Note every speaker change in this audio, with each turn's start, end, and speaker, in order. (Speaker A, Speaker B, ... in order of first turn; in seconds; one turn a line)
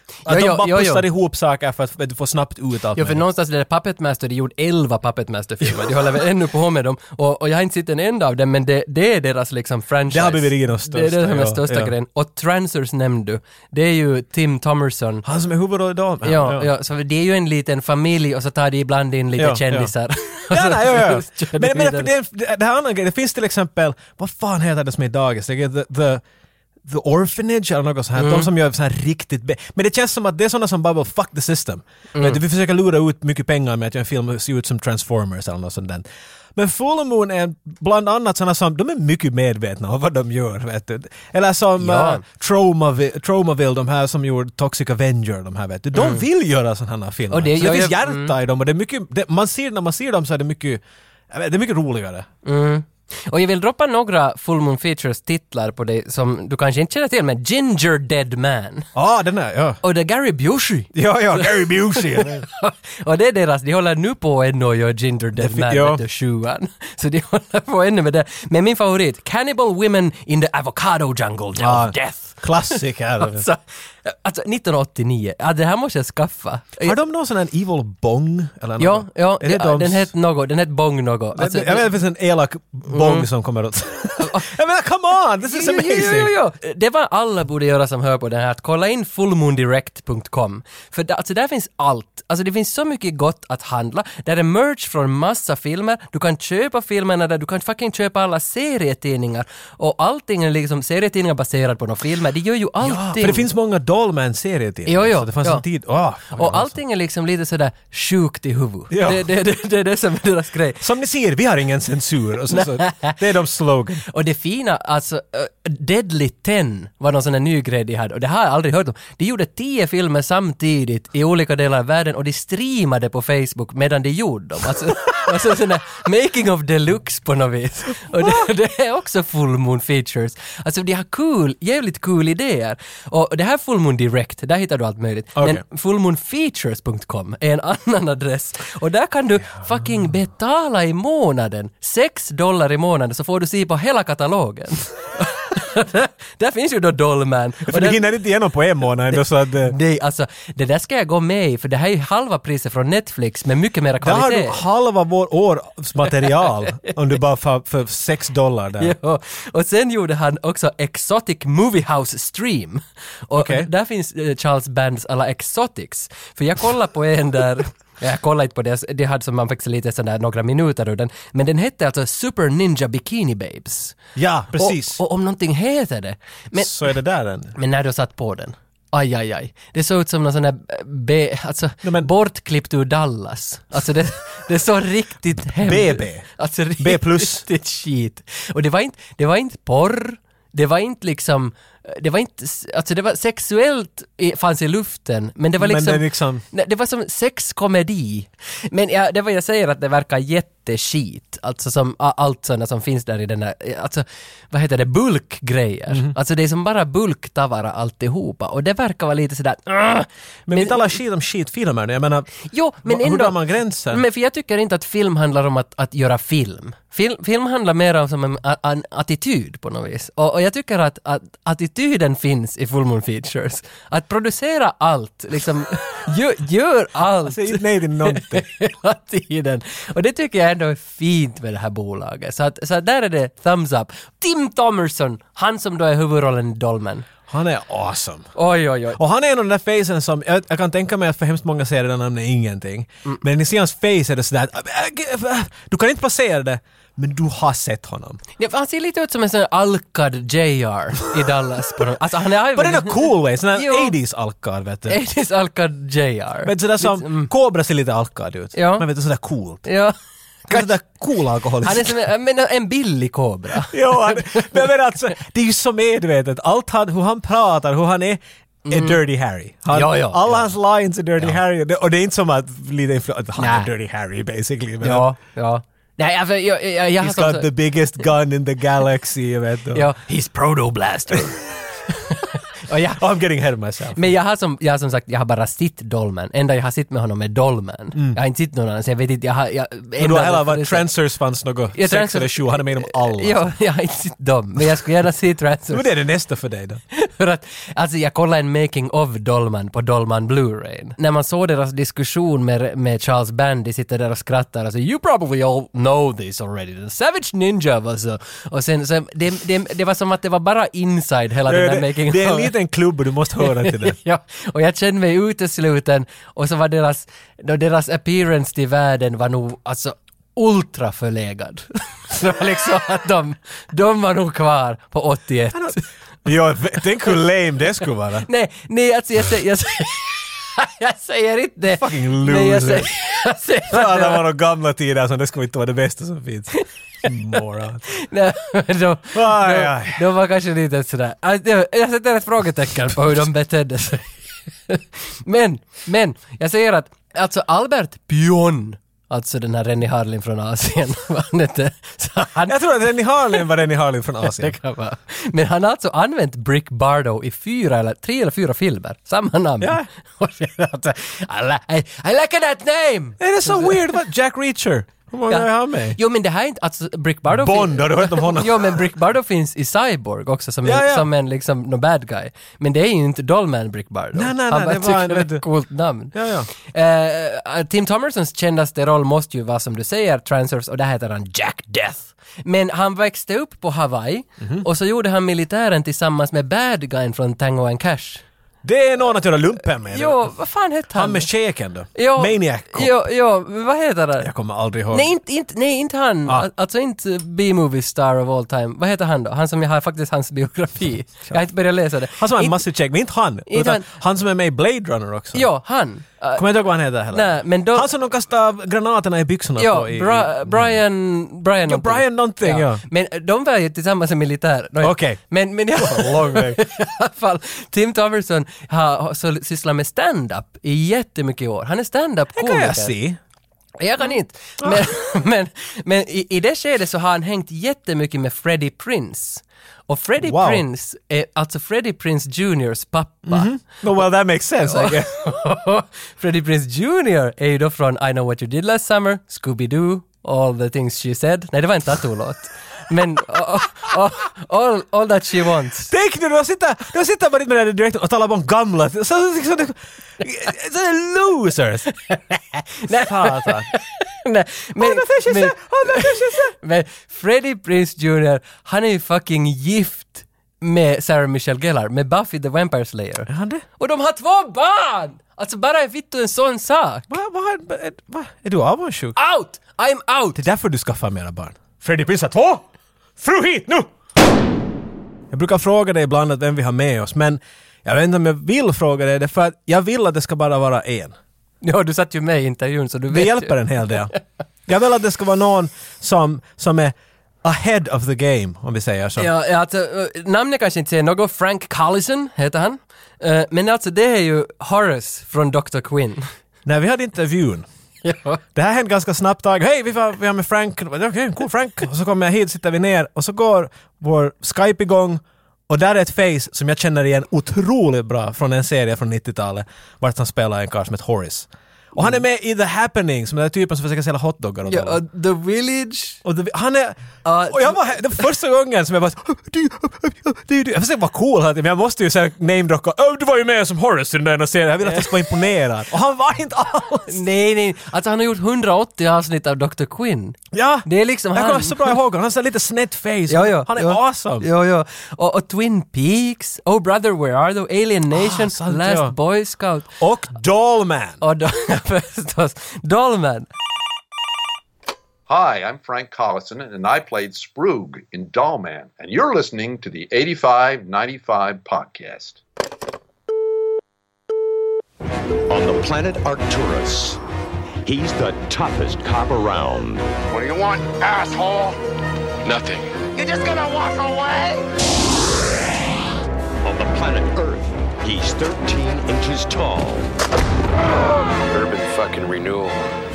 Speaker A: 0.3-1.1
Speaker B: 0.3-3.2
Speaker A: 3.0-15.2
Speaker B: 10.1-11.9
Speaker B: 15.2-16.7
Speaker A: 16.2-22.1
Speaker B: 19.4-19.9
Speaker B: 20.5-26.2
Speaker B: 26.9-36.0
Speaker A: 28.2-28.5
Speaker A: 32.1-32.4
Speaker B: 36.6-52.3
Speaker A: 41.8-42.2
Speaker A: 46.0-46.2
Speaker A: 47.3-48.4
Speaker A: 52.5-58.9
Speaker B: 59.0-59.8
Speaker A: 59.8-77.0
Speaker B: 60.9-62.5
Speaker B: 65.4-66.0
Speaker B: 71.6-73.5
Speaker B: 76.8-80.1
Speaker A: 78.8-81.9
Speaker B: 81.3-86.3
Speaker A: 82.9-83.3
Speaker A: 84.2-84.5
Speaker A: 85.5-103.5
Speaker B: 102.8-106.8
Speaker A: 104.9-105.7
Speaker A: 106.3-110.8
Speaker B: 108.9-109.3
Speaker B: 110.8-114.0
Speaker A: 112.5-113.2
Speaker A: 114.1-148.1
Speaker B: 128.2-128.5
Speaker B: 135.4-135.6
Speaker B: 147.7-149.8
Speaker A: 149.1-154.6
Speaker B: 154.0-158.9
Speaker A: 158.8-174.0
Speaker B: 163.4-163.7
Speaker B: 174.2-175.0
Speaker A: 174.6-176.8
Speaker B: 176.6-177.5
Speaker A: 177.5-210.8
Speaker B: 181.8-182.1
Speaker B: 185.6-186.3
Speaker B: 186.8-187.4
Speaker B: 195.6-196.4
Speaker B: 205.9-206.2
Speaker B: 210.5-214.0
Speaker A: 212.5-237.1
Speaker B: 227.2-228.5
Speaker B: 237.3-238.3
Speaker A: 238.3-239.0
Speaker B: 239.0-248.2
Speaker A: 248.4-253.9
Speaker B: 252.6-255.0
Speaker A: 254.9-257.3
Speaker B: 256.4-259.7
Speaker A: 258.6-258.9
Speaker A: 259.6-259.9
Speaker B: 260.5-262.0
Speaker A: 261.6-264.7
Speaker B: 263.6-275.1
Speaker A: 268.7-269.0
Speaker A: 269.7-270.5
Speaker A: 273.4-273.7
Speaker A: 274.8-277.5
Speaker B: 277.0-279.9
Speaker A: 279.7-283.0
Speaker B: 282.9-284.1
Speaker A: 284.0-290.9
Speaker B: 287.9-288.2
Speaker B: 290.0-293.5
Speaker A: 291.8-295.9
Speaker B: 295.7-296.8
Speaker A: 296.9-312.5
Speaker B: 311.5-314.0
Speaker A: 313.4-325.8
Speaker B: 325.5-328.3
Speaker A: 328.2-334.3
Speaker B: 331.7-332.9
Speaker B: 333.7-336.5
Speaker B: 337.0-337.8
Speaker A: 337.9-352.6
Speaker B: 339.1-340.0
Speaker B: 352.5-354.6
Speaker A: 354.2-364.0
Speaker B: 359.6-359.9
Speaker B: 363.2-366.0
Speaker A: 365.3-388.2
Speaker B: 367.3-368.9
Speaker B: 370.6-371.1
Speaker B: 374.1-375.4
Speaker B: 376.1-376.5
Speaker B: 384.4-384.6
Speaker B: 388.6-390.3
Speaker A: 389.8-391.3
Speaker B: 390.9-393.0
Speaker A: 391.9-394.3
Speaker B: 394.2-395.1
Speaker A: 394.9-402.6
Speaker B: 402.2-405.5
Speaker A: 403.5-403.9
Speaker A: 405.3-407.9
Speaker B: 406.4-410.8
Speaker A: 409.6-423.0
Speaker B: 411.7-412.8
Speaker B: 414.8-415.2
Speaker B: 415.8-416.6
Speaker B: 422.4-423.2
Speaker A: 423.8-433.6
Speaker B: 430.2-430.6
Speaker B: 433.3-435.1
Speaker A: 434.6-445.9
Speaker B: 445.9-451.9
Speaker A: 452.1-467.1
Speaker B: 452.9-453.7
Speaker B: 454.8-456.6
Speaker B: 463.3-463.6
Speaker B: 467.1-469.2
Speaker A: 469.2-470.4
Speaker B: 470.4-472.6
Speaker B: 473.2-473.9
Speaker B: 475.3-481.2
Speaker A: 481.6-483.6
Speaker B: 483.1-484.1
Speaker B: 484.7-489.3
Speaker A: 489.2-496.2
Speaker B: 496.6-497.7
Speaker A: 498.0-498.4
Speaker B: 498.6-515.0
Speaker A: 514.7-516.2
Speaker B: 516.2-527.2
Speaker A: 517.2-518.2
Speaker A: 524.9-525.2
Speaker A: 527.1-532.0
Speaker B: 530.5-534.5
Speaker A: 533.3-539.9
Speaker B: 538.1-539.1
Speaker B: 540.0-541.2
Speaker A: 541.2-543.5
Speaker C: 545.3-552.4
Speaker D: 555.5-557.2
Speaker D: 557.8-560.1
Speaker E: 560.3-561.8
Speaker E: 562.4-564.7
Speaker D: 566.6-570.1
Speaker D: 571.5-572.5
Speaker E: 571.7-572.8